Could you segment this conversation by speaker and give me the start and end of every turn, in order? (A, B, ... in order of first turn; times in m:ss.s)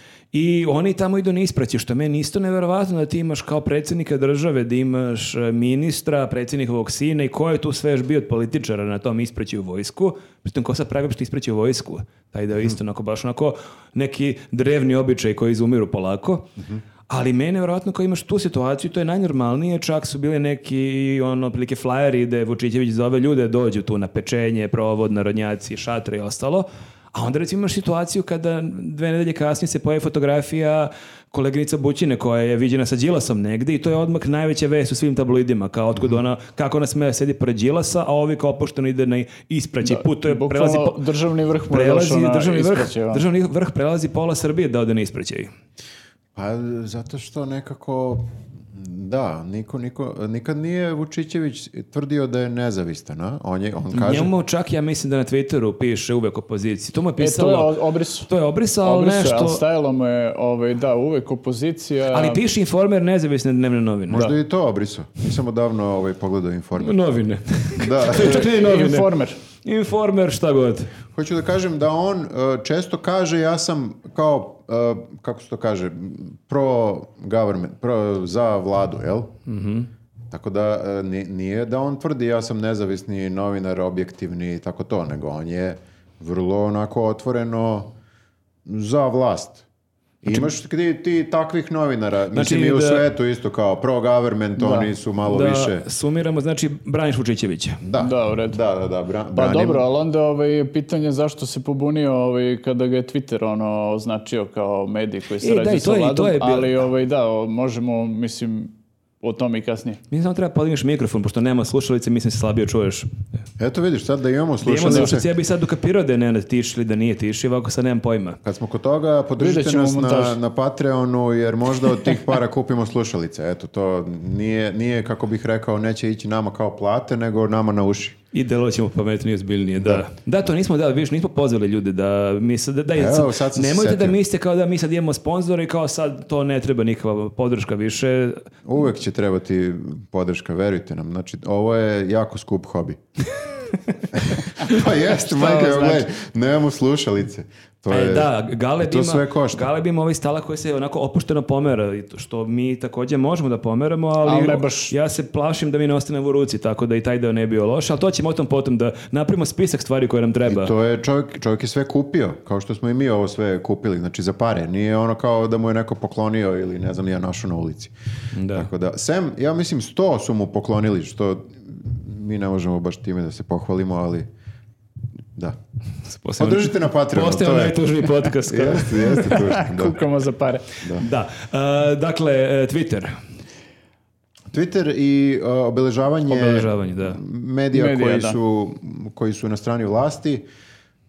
0:00.3-0:16.5 A
0:16.6-0:16.8 B
0:17.1-0:41.0 A
0:39.8-0:43.2 C
0:41.7-0:45.5 A
0:46.4-0:54.3 B
0:53.9-0:59.6 A
0:57.2-0:58.3 C
0:58.8-1:02.4 C
1:02.1-1:04.3 A
1:04.1-1:07.0 B
1:06.8-1:09.1 A
1:07.8-1:08.5 B
1:08.3-1:09.4 C
1:09.6-1:10.9 A
1:11.1-1:19.3 B
1:19.5-1:19.9 A
1:20.3-1:27.9 B
1:28.6-1:29.6 B
1:30.2-1:35.8 B
1:32.3-1:33.0 A
1:34.6-1:34.9 C
1:35.3-1:37.8 A
1:37.8-1:39.8 B
1:38.0-1:38.6 C
1:39.3-1:50.0 C
1:45.4-1:46.8 A
1:50.1-1:53.1 A
1:53.6-1:55.3 B
1:54.6-1:58.4 A
1:58.4-2:08.2 B
1:59.4-2:00.4 C
2:08.3-2:18.4 A
2:09.8-2:10.0 B
2:12.9-2:14.2 B
2:18.6-2:23.0 B
2:24.1-2:29.7 B
2:25.3-2:26.0 C
2:27.9-2:40.7 A
2:34.2-2:34.9 C
2:40.4-2:47.9 B
2:48.3-2:48.7 A
2:48.5-2:54.3 B
2:56.1-2:59.4 A
2:56.4-2:57.8 B
2:58.4-3:00.0 B
2:59.2-3:00.7 C
3:00.8-3:01.1 B
3:01.0-3:03.2 A
3:04.5-3:10.4 B
3:06.3-3:07.2 A
3:07.7-3:08.4 C